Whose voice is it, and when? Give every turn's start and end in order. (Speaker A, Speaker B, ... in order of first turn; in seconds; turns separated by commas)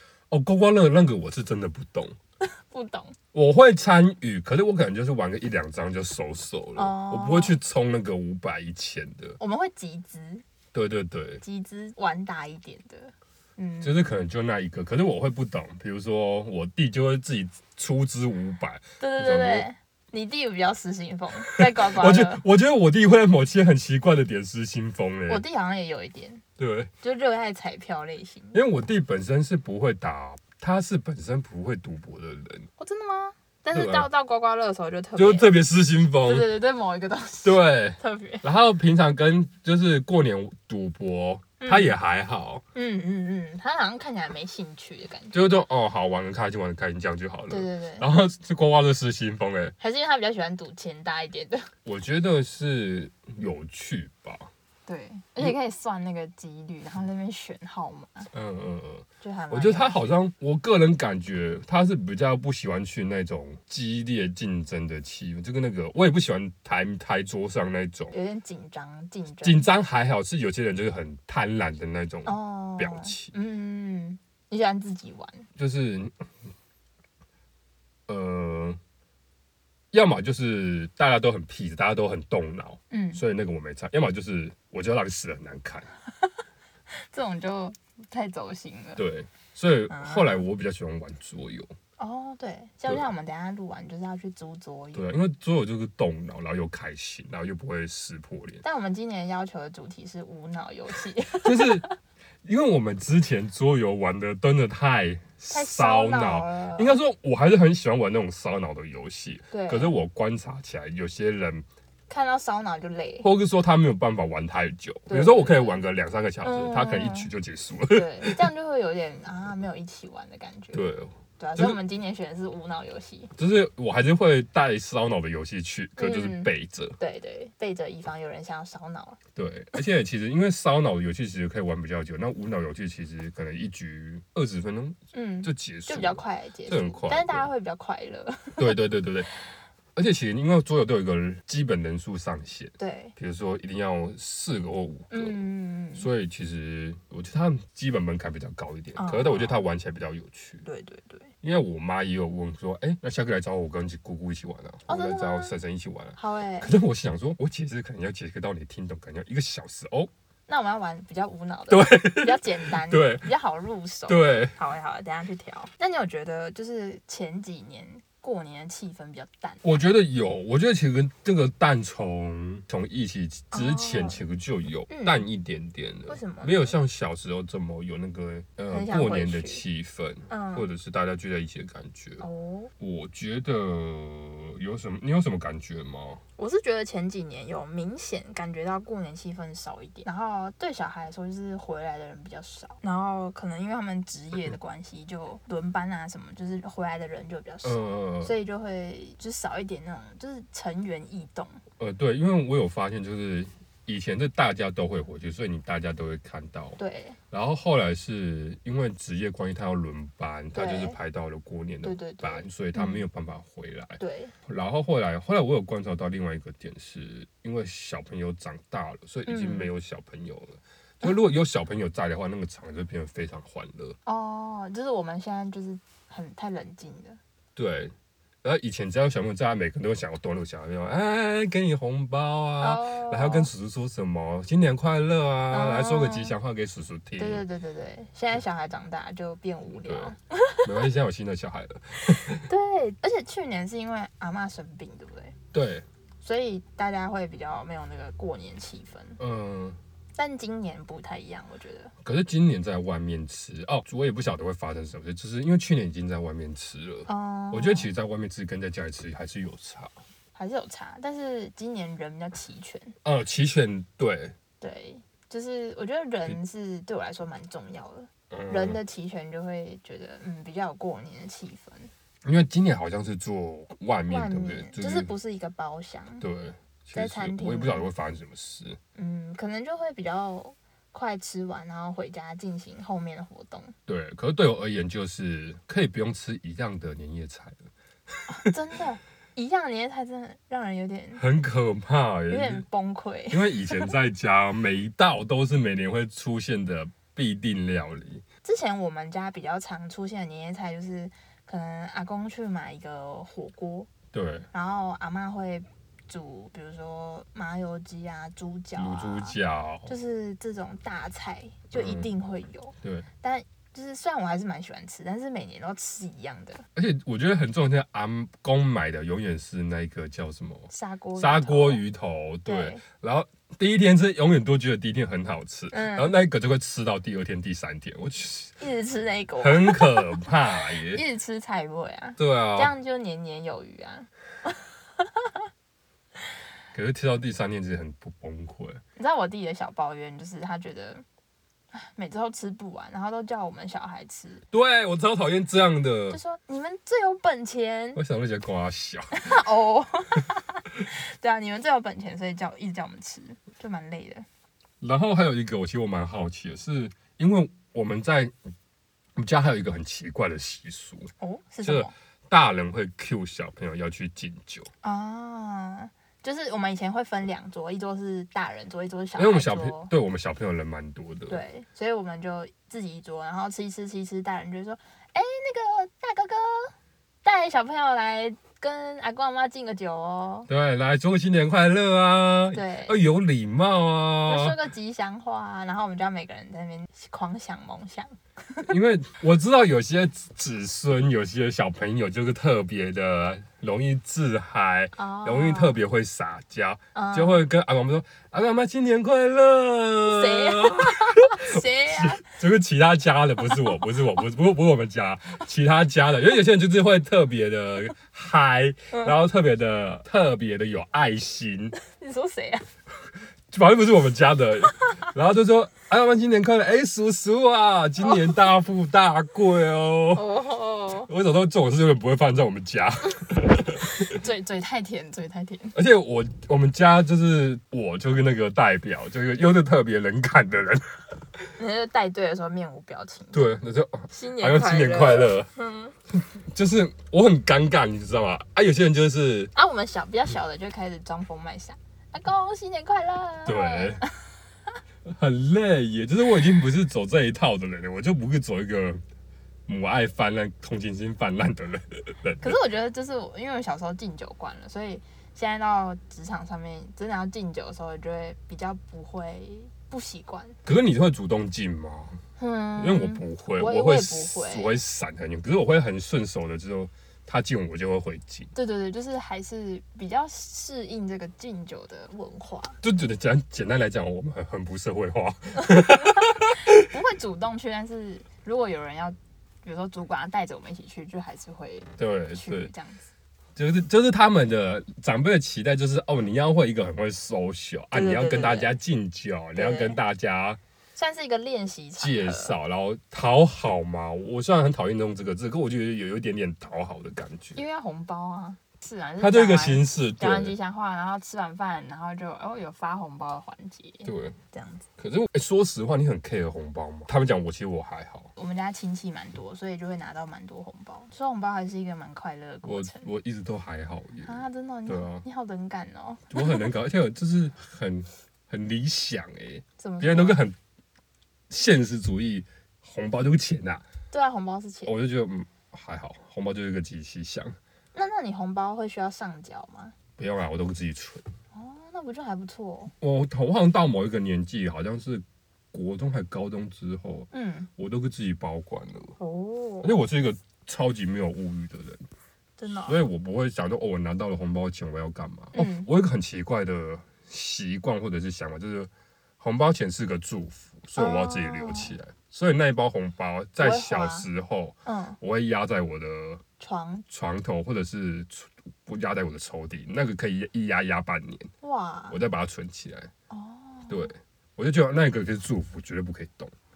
Speaker A: 0.3-2.2, Speaker B: 2.5-3.1, Speaker A: 3.3-9.4, Speaker B: 6.8-7.6, Speaker B: 9.4-10.4, Speaker A: 10.7-11.4, Speaker B: 11.4-14.1, Speaker A: 13.8-19.7, Speaker B: 19.0-22.4, Speaker A: 21.4-25.4, Speaker B: 25.3-26.4, Speaker A: 26.6-26.9, Speaker B: 27.0-28.6, Speaker A: 28.5-32.7, Speaker B: 32.8-35.5, Speaker A: 33.7-34.1, Speaker A: 35.2-36.5, Speaker B: 36.2-38.4, Speaker A: 37.4-42.6, Speaker B: 41.6-42.0, Speaker B: 42.7-45.4, Speaker A: 45.3-49.8, Speaker B: 47.5-48.1, Speaker B: 49.8-51.7, Speaker A: 51.9-54.5, Speaker B: 54.9-58.3, Speaker A: 58.3-68.2, Speaker B: 59.2-60.1, Speaker B: 68.1-69.7, Speaker A: 69.4-73.3, Speaker B: 72.3-75.5, Speaker A: 75.6-76.2, Speaker A: 78.1-78.8, Speaker A: 79.9-85.9, Speaker B: 82.9-83.2, Speaker B: 86.9-89.0, Speaker A: 89.0-91.7, Speaker B: 89.9-90.4, Speaker B: 92.0-95.0, Speaker A: 94.9-98.6, Speaker B: 98.6-101.9, Speaker A: 101.4-101.8, Speaker A: 102.4-111.7, Speaker B: 105.5-107.0, Speaker B: 109.5-110.0, Speaker B: 112.1-113.3, Speaker A: 113.2-118.4, Speaker B: 115.1-115.8, Speaker B: 116.4-117.3, Speaker B: 117.9-120.8, Speaker A: 120.7-121.8, Speaker B: 121.4-123.3, Speaker A: 123.4-127.0, Speaker B: 126.0-129.2, Speaker A: 129.4-137.5, Speaker B: 135.1-138.8, Speaker A: 138.6-139.3, Speaker A: 139.9-145.4, Speaker B: 142.8-143.1, Speaker B: 145.1-146.1, Speaker A: 146.0-150.7, Speaker B: 149.0-149.6, Speaker B: 150.7-151.3, Speaker A: 151.4-160.1, Speaker B: 154.9-155.6, Speaker B: 156.2-156.7, Speaker B: 160.5-169.8, Speaker A: 161.7-163.3, Speaker A: 164.1-164.6, Speaker A: 169.6-182.2, Speaker B: 173.5-174.2, Speaker B: 174.9-175.3, Speaker B: 176.1-176.7, Speaker B: 178.7-179.6, Speaker B: 180.3-180.7, Speaker B: 182.2-182.7, Speaker A: 182.8-186.2, Speaker B: 186.4-201.6, Speaker A: 197.6-198.3, Speaker A: 201.8-206.8, Speaker B: 206.8-207.2, Speaker A: 207.3-224.0, Speaker B: 210.5-211.0, Speaker B: 211.8-213.1, Speaker B: 214.0-214.3, Speaker B: 219.3-219.7, Speaker B: 224.1-227.2, Speaker A: 227.6-227.9, Speaker A: 228.4-237.4, Speaker B: 232.6-233.5, Speaker B: 235.5-236.3, Speaker B: 237.2-240.7, Speaker A: 239.8-242.5, Speaker B: 242.5-245.4, Speaker A: 245.5-245.8, Speaker B: 246.2-249.2, Speaker A: 249.2-249.8, Speaker B: 250.2-251.9, Speaker A: 252.0-259.9, Speaker B: 257.1-257.9, Speaker B: 260.4-262.9, Speaker A: 263.0-264.4, Speaker B: 264.6-271.9, Speaker A: 268.3-268.8, Speaker A: 272.2-275.1, Speaker B: 274.1-276.2, Speaker A: 276.2-278.8, Speaker B: 276.9-277.9, Speaker B: 278.9-283.7, Speaker A: 283.9-288.5, Speaker B: 288.3-291.2, Speaker A: 291.2-292.6, Speaker B: 292.3-293.9, Speaker A: 293.3-298.2, Speaker B: 298.4-303.9, Speaker A: 304.1-304.5, Speaker B: 304.5-316.6, Speaker A: 308.8-309.9, Speaker A: 311.7-312.1, Speaker A: 312.8-313.1, Speaker A: 316.8-328.6, Speaker B: 320.7-321.8, Speaker B: 322.5-322.8, Speaker B: 325.7-326.1, Speaker B: 328.6-335.4, Speaker A: 329.4-331.0, Speaker A: 332.2-332.7, Speaker A: 336.7-338.8, Speaker B: 339.0-341.0, Speaker B: 341.7-344.4, Speaker A: 344.5-346.2, Speaker B: 346.1-348.0, Speaker A: 347.9-349.3, Speaker B: 349.1-354.3, Speaker A: 354.8-358.3, Speaker A: 359.2-361.1, Speaker B: 361.2-361.9, Speaker A: 361.6-364.7, Speaker B: 364.8-369.9, Speaker A: 369.2-371.4, Speaker B: 371.3-380.5, Speaker A: 380.5-384.6, Speaker B: 382.5-383.0, Speaker B: 384.3-388.7, Speaker A: 388.6-411.8, Speaker B: 394.9-395.8, Speaker B: 396.9-397.4, Speaker B: 400.1-402.3, Speaker B: 403.4-403.8, Speaker B: 411.8-412.7, Speaker A: 413.5-420.3, Speaker B: 418.0-418.4, Speaker B: 420.1-421.1, Speaker A: 421.1-424.2, Speaker B: 424.0-425.8, Speaker A: 425.7-430.9, Speaker B: 431.6-433.5, Speaker A: 433.3-435.5, Speaker B: 434.1-435.9, Speaker A: 436.4-439.5, Speaker B: 439.6-444.1, Speaker A: 443.4-444.0, Speaker A: 445.1-449.0, Speaker A: 449.7-452.6, Speaker B: 452.4-460.6, Speaker A: 460.6-462.2, Speaker B: 462.4-464.8, Speaker A: 462.8-468.5, Speaker B: 468.5-472.8, Speaker A: 472.8-476.9, Speaker B: 475.6-483.1, Speaker A: 482.0-482.7, Speaker A: 483.6-490.6, Speaker B: 487.9-488.7, Speaker B: 489.6-490.0, Speaker B: 490.9-492.6, Speaker A: 492.0-497.6, Speaker B: 497.6-504.9, Speaker A: 499.2-500.6, Speaker A: 504.1-504.4, Speaker A: 505.0-508.3, Speaker B: 508.4-513.1, Speaker A: 512.6-515.2, Speaker B: 514.2-516.7, Speaker A: 516.3-520.6, Speaker B: 519.8-520.4, Speaker A: 521.5-523.9, Speaker B: 524.1-525.0, Speaker A: 524.9-527.6, Speaker B: 527.9-530.0, Speaker A: 530.2-531.2, Speaker B: 531.5-532.9, Speaker A: 533.0-539.2, Speaker B: 537.3-537.7, Speaker B: 539.2-539.9, Speaker A: 539.8-542.0, Speaker B: 542.6-543.0, Speaker A: 542.9-556.4, Speaker B: 545.5-545.9, Speaker B: 551.0-552.0, Speaker B: 553.6-554.3, Speaker B: 554.9-555.2, Speaker B: 556.6-557.0, Speaker A: 557.1-561.5, Speaker B: 561.6-562.2, Speaker A: 562.1-563.1, Speaker B: 563.3-564.1, Speaker A: 563.9-566.5